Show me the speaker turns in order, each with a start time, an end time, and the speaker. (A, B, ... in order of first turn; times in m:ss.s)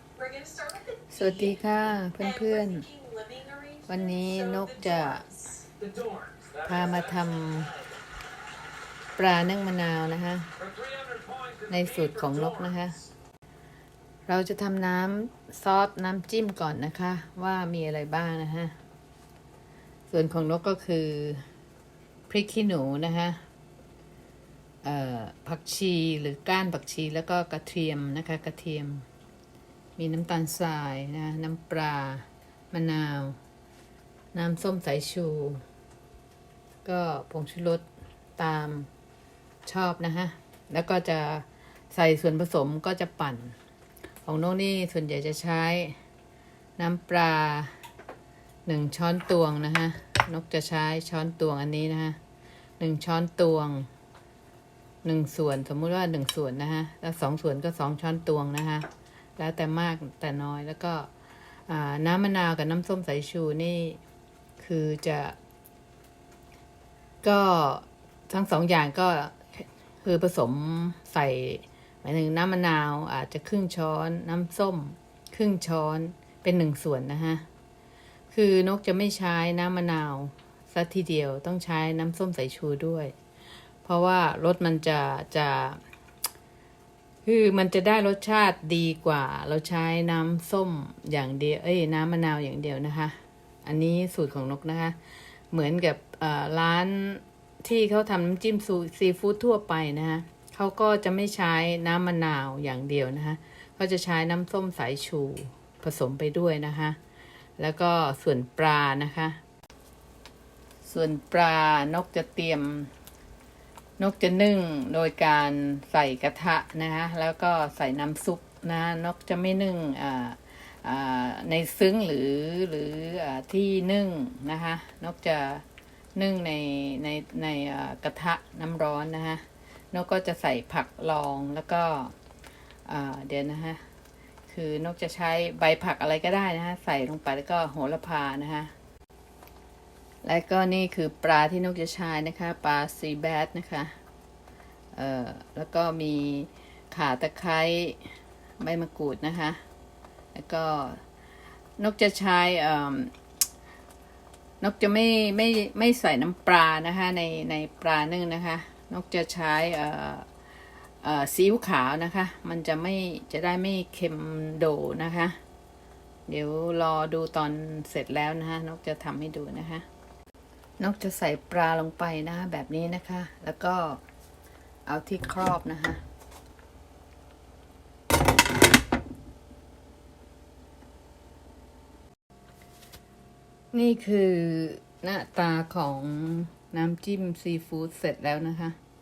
0:00.2-0:01.6 A
0:01.1-0:02.9 B
0:02.2-0:05.7 A
0:03.9-0:05.2 B
0:05.8-0:06.8 C
0:06.6-0:07.7 B
0:09.2-0:10.5 B
0:10.6-0:12.8 C
0:11.7-0:13.0 B
0:14.3-0:18.8 B
0:20.1-0:21.4 B
0:22.3-0:23.4 B
0:24.8-0:29.1 B
0:30.0-0:33.4 B
0:34.3-0:35.6 B
0:36.8-0:38.9 B
0:39.7-0:43.6 B
0:44.2-0:46.0 B
0:46.8-0:47.7 B
0:48.7-0:52.2 B
0:52.8-0:53.9 B
0:55.0-1:01.1 B
1:01.7-1:04.0 B
1:04.6-1:05.4 B
1:07.2-1:17.4 B
1:18.3-1:23.1 B
1:23.8-1:25.8 B
1:27.2-1:35.0 B
1:35.5-1:47.0 B
1:47.6-1:49.4 B
1:50.8-1:52.9 B
1:54.0-2:05.6 B
2:06.2-2:12.1 B
2:12.9-2:13.8 B
2:14.5-2:18.7 B
2:20.2-2:23.9 B
2:24.9-2:28.0 B
2:28.6-2:29.6 B
2:30.4-2:31.0 B
2:31.8-2:33.2 B
2:34.6-2:40.3 B
2:41.0-2:45.4 B
2:46.3-2:49.9 B
2:50.8-2:54.0 B
2:54.9-2:56.0 B
3:03.7-3:08.8 B